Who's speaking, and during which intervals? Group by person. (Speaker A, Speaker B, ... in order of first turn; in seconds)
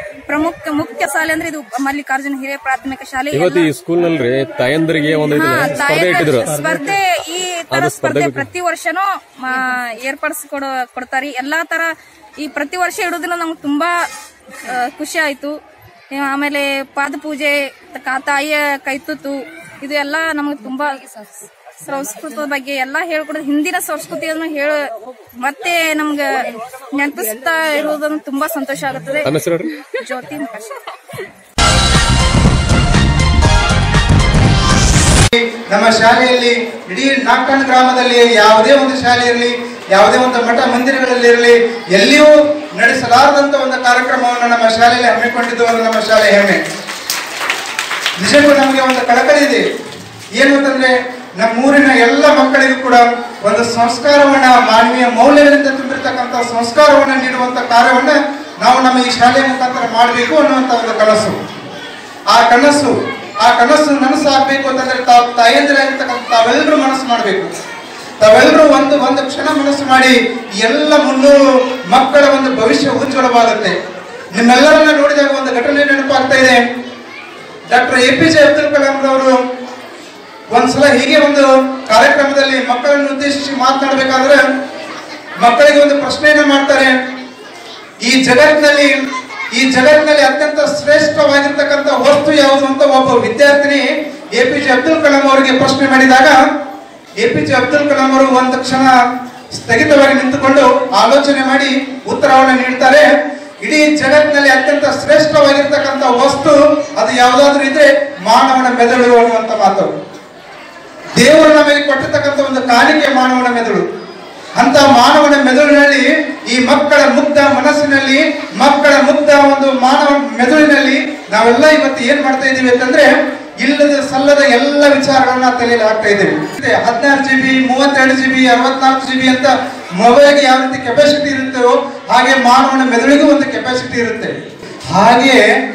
Speaker A: 0.3-3.7, 5.3-11.9, 12.4-13.9, 14.6-15.5, 16.2-24.8, 25.4-26.3, 26.9-29.3, 29.9-30.9
Speaker B: 3.3-6.7, 7.7-8.5, 29.2-29.7
Speaker C: 35.3-46.6, 48.2-49.6, 50.4-61.4, 62.3-67.5, 68.2-73.7, 74.3-76.6, 77.7-79.3, 80.5-84.4, 85.4-86.9, 88.0-96.4, 97.2-98.9, 99.6-103.1, 103.6-109.9, 111.2-113.8, 114.6-134.3, 134.9-135.4